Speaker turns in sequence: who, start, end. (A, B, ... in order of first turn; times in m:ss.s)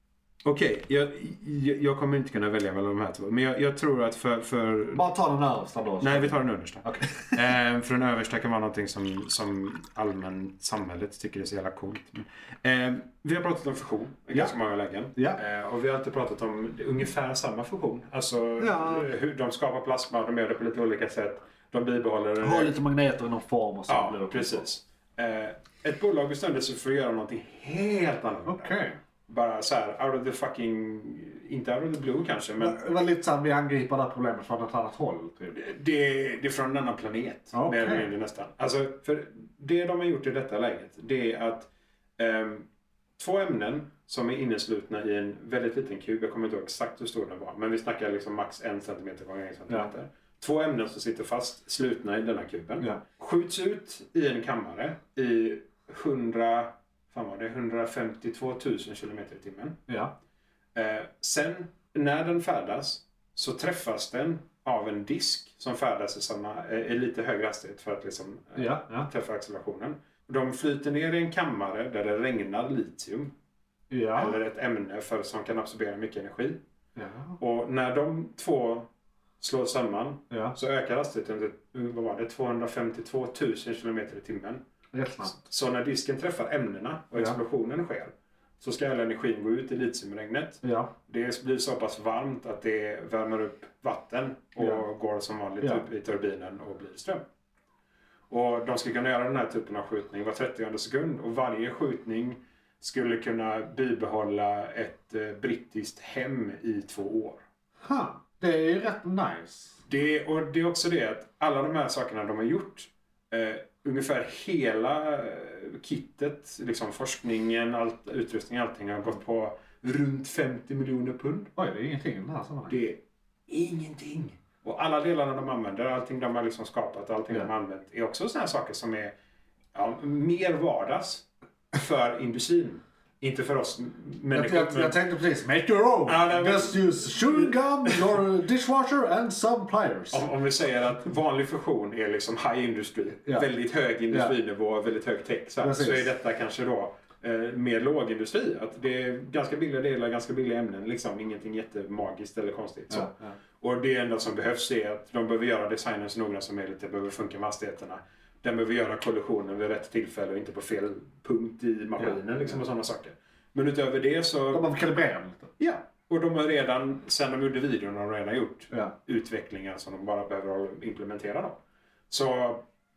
0:00.4-0:05.0 A
0:04.9-0:07.4 B
0:06.0-0:22.7 A
0:15.1-0:15.4 B
0:18.6-0:19.1 B
0:22.4-0:24.6 B
0:23.9-0:28.7 A
0:28.5-0:29.0 B
0:29.3-0:32.8 A
0:32.6-0:35.6 B
0:35.5-0:42.7 A
0:37.5-0:38.1 B
0:43.2-0:59.8 A
1:00.7-1:13.3 A
1:08.5-1:09.1 B
1:13.9-1:14.4 B
1:14.1-1:16.6 A
1:17.0-1:17.4 B
1:17.4-1:18.9 A
1:19.4-1:24.6 A
1:20.3-1:20.6 B
1:24.9-1:25.5 B
1:25.2-1:37.2 A
1:30.6-1:30.9 B
1:35.6-1:35.8 B
1:38.3-1:47.4 A
1:47.8-1:49.8 B
1:49.9-2:01.5 A
2:01.6-2:02.8 B
2:02.7-2:09.1 A
2:09.7-2:15.0 A
2:14.3-2:20.2 B
2:16.0-2:18.2 A
2:20.1-2:44.6 A
2:24.1-2:24.3 B
2:25.6-2:26.1 B
2:32.9-2:33.3 B
2:44.5-2:45.6 B
2:45.6-2:51.6 A
2:52.1-2:52.6 A